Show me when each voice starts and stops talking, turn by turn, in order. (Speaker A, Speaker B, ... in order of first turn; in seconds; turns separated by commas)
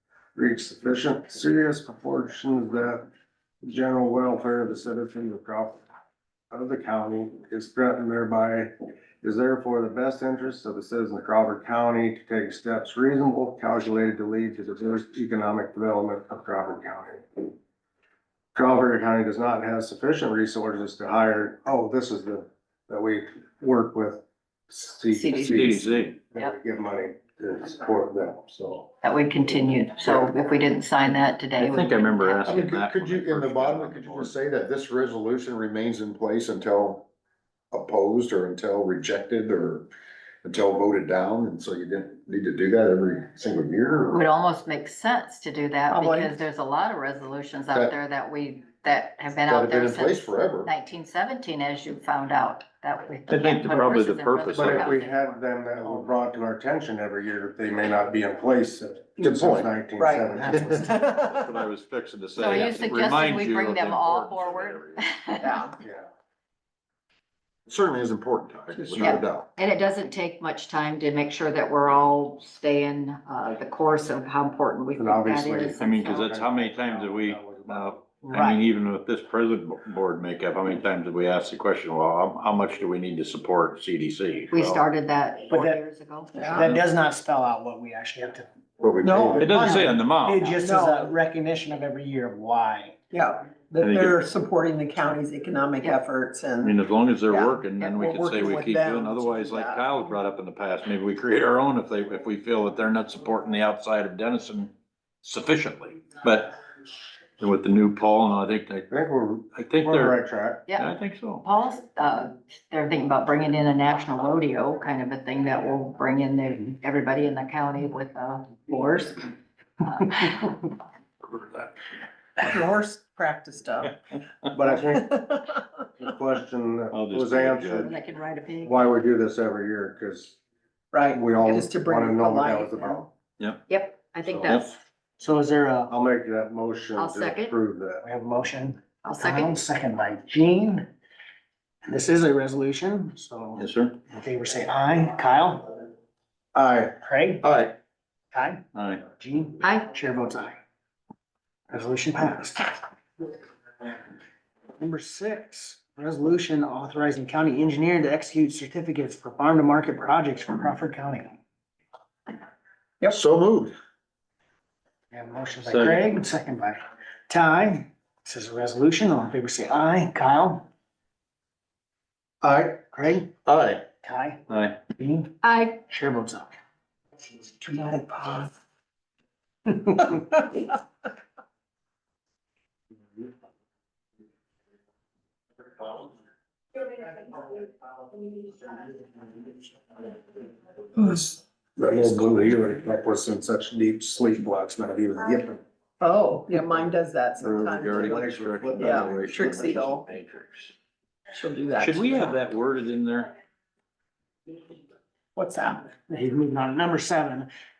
Speaker A: 0.4-3.0, Speaker A: 3.6-5.8, Speaker A: 6.5-17.5, Speaker A: 18.6-28.9, Speaker B: 25.1-26.5, Speaker C: 25.4-26.2, Speaker B: 29.0-32.5, Speaker A: 30.0-30.3, Speaker C: 31.6-34.3, Speaker D: 32.5-37.1, Speaker D: 37.7-39.9, Speaker D: 40.4-44.2, Speaker B: 44.1-55.4, Speaker E: 45.9-46.4, Speaker D: 49.5-50.7, Speaker C: 53.3-55.0, Speaker A: 54.5-60.9, Speaker F: 55.8-56.1, Speaker D: 59.2-59.7, Speaker E: 60.0-61.7, Speaker F: 60.4-60.9, Speaker C: 61.0-65.1, Speaker B: 62.4-65.7, Speaker E: 65.4-65.8, Speaker A: 65.8-66.1, Speaker D: 67.7-69.5, Speaker E: 68.9-69.2, Speaker B: 69.0-76.2, Speaker A: 75.0-78.0, Speaker C: 75.8-84.8, Speaker F: 78.2-78.6, Speaker B: 84.5-86.7, Speaker F: 85.5-85.8, Speaker E: 86.4-86.7, Speaker F: 86.4-88.5, Speaker D: 88.8-89.6, Speaker F: 89.0-93.0, Speaker C: 89.4-90.5, Speaker E: 90.5-91.2, Speaker E: 93.1-100.2, Speaker C: 93.8-94.2, Speaker C: 96.6-106.6, Speaker C: 107.4-108.9, Speaker A: 108.9-110.7, Speaker C: 109.5-110.2, Speaker B: 110.7-110.9, Speaker C: 110.8-111.4, Speaker B: 111.4-119.3, Speaker B: 119.8-120.8, Speaker E: 122.4-124.0, Speaker A: 124.5-125.1, Speaker E: 124.8-125.8, Speaker A: 126.0-127.9, Speaker C: 126.9-127.9, Speaker B: 127.8-128.8, Speaker A: 128.6-130.4, Speaker E: 130.9-133.1, Speaker A: 131.1-133.1, Speaker B: 133.7-134.7, Speaker C: 134.4-134.8, Speaker F: 135.2-135.9, Speaker A: 135.9-138.1, Speaker B: 136.9-137.5, Speaker F: 138.0-140.9, Speaker B: 139.0-139.6, Speaker F: 141.8-145.9, Speaker C: 143.6-144.0, Speaker A: 146.6-146.9, Speaker F: 147.0-147.5, Speaker C: 147.4-147.8, Speaker F: 148.3-150.6, Speaker C: 148.8-149.1, Speaker B: 149.6-149.9, Speaker F: 151.7-152.8, Speaker F: 154.8-161.4, Speaker D: 163.1-163.7, Speaker F: 165.1-166.8, Speaker C: 165.7-166.1, Speaker F: 167.3-170.6, Speaker A: 172.4-172.8, Speaker F: 172.6-173.3, Speaker C: 173.5-173.9, Speaker F: 174.0-175.3, Speaker C: 174.5-174.9, Speaker B: 175.4-175.8, Speaker F: 175.8-176.6, Speaker E: 177.6-178.5, Speaker A: 191.1-195.6, Speaker E: 196.0-200.0, Speaker C: 197.4-200.7, Speaker A: 197.9-199.6, Speaker E: 201.3-202.4, Speaker C: 201.8-203.3, Speaker E: 205.4-205.9, Speaker F: 205.9-207.5